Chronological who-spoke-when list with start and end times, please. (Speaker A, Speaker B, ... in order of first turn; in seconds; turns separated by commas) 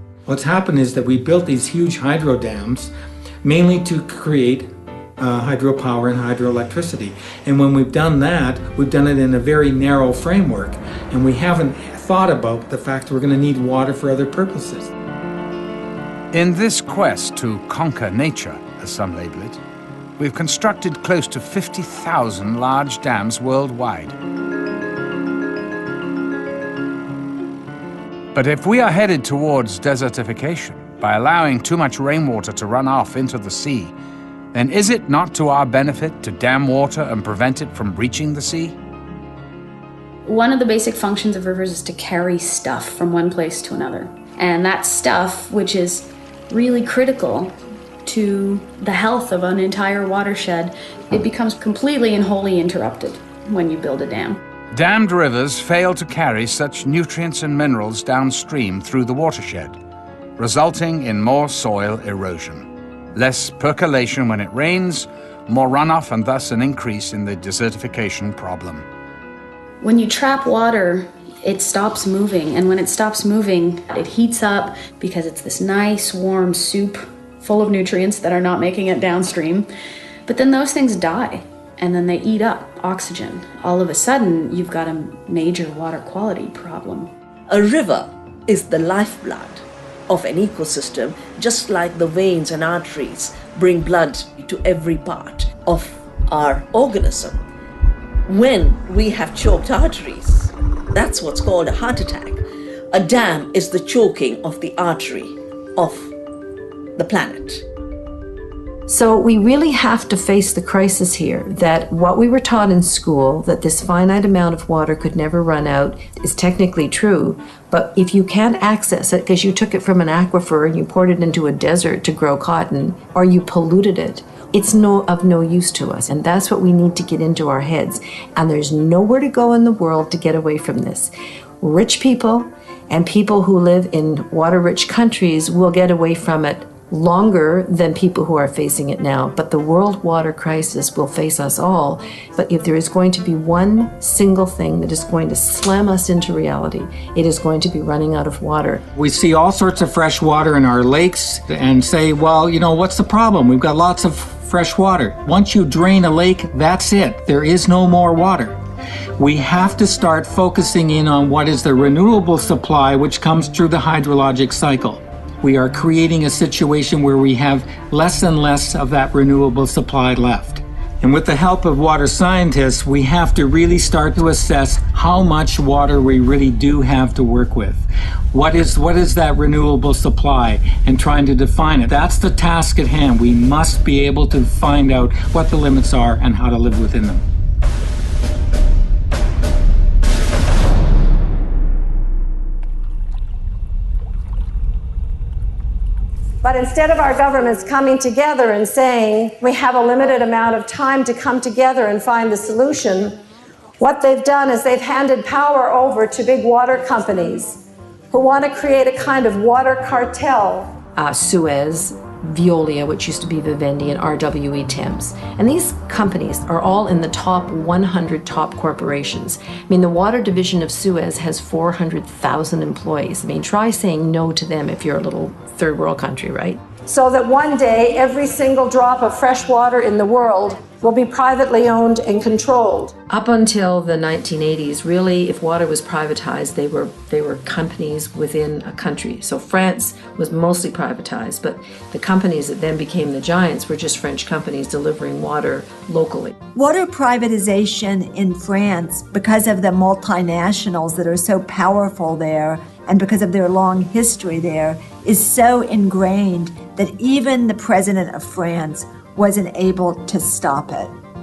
Speaker A: 0.3-2.9, Speaker A: 3.4-14.9, Speaker B: 16.3-19.6, Speaker B: 20.2-24.2, Speaker B: 28.3-34.0, Speaker B: 34.5-38.8, Speaker C: 40.2-54.4, Speaker B: 54.7-59.8, Speaker B: 60.4-68.9, Speaker C: 69.8-79.7, Speaker C: 80.3-87.1, Speaker D: 87.5-97.4, Speaker D: 98.3-106.1, Speaker D: 107.0-107.7, Speaker E: 108.9-148.9, Speaker A: 148.9-158.6, Speaker A: 159.2-187.3, Speaker F: 196.4-203.2, Speaker F: 203.8-210.7, Speaker E: 211.0-226.6, Speaker F: 226.8-232.9, Speaker E: 233.1-246.4, Speaker G: 246.6-261.0